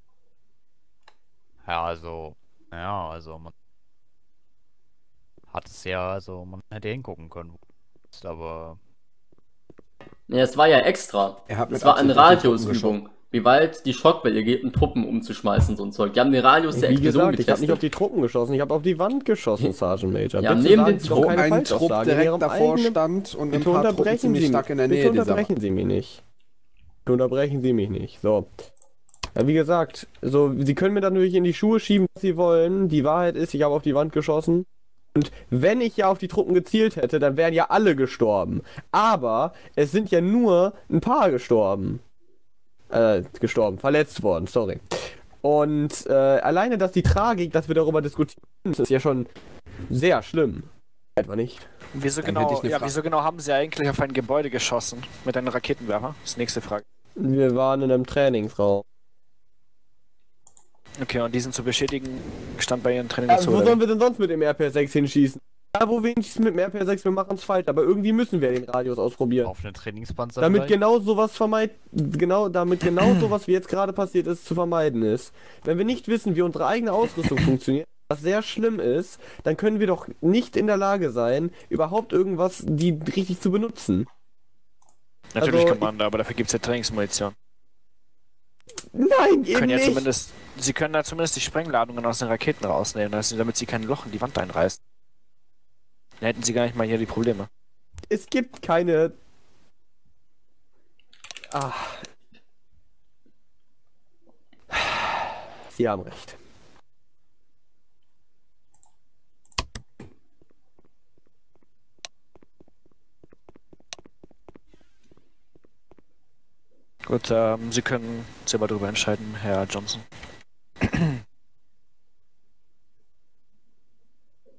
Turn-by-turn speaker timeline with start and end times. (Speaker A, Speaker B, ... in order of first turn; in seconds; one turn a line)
Speaker A: 1.6-3.5
Speaker A: 5.5-7.6
Speaker A: 8.1-8.8
Speaker B: 10.3-17.8
Speaker C: 11.5-13.0
Speaker D: 16.7-23.0
Speaker B: 20.4-21.4
Speaker C: 21.0-25.5
Speaker D: 23.5-26.2
Speaker D: 27.1-28.5
Speaker D: 29.3-42.0
Speaker D: 42.9-49.3
Speaker D: 49.9-51.7
Speaker E: 51.9-56.8
Speaker C: 52.2-52.9
Speaker D: 57.2-58.8
Speaker E: 61.0-63.8
Speaker D: 63.3-69.5
Speaker A: 69.4-70.8
Speaker D: 70.4-84.1
Speaker E: 85.3-87.3
Speaker D: 85.4-85.9
Speaker D: 88.9-90.1
Speaker E: 89.5-94.8
Speaker E: 96.2-97.5
Speaker D: 98.1-99.1
Speaker D: 101.5-102.0
Speaker D: 104.7-105.0
Speaker D: 105.7-106.4
Speaker E: 117.1-120.0
Speaker E: 120.9-121.2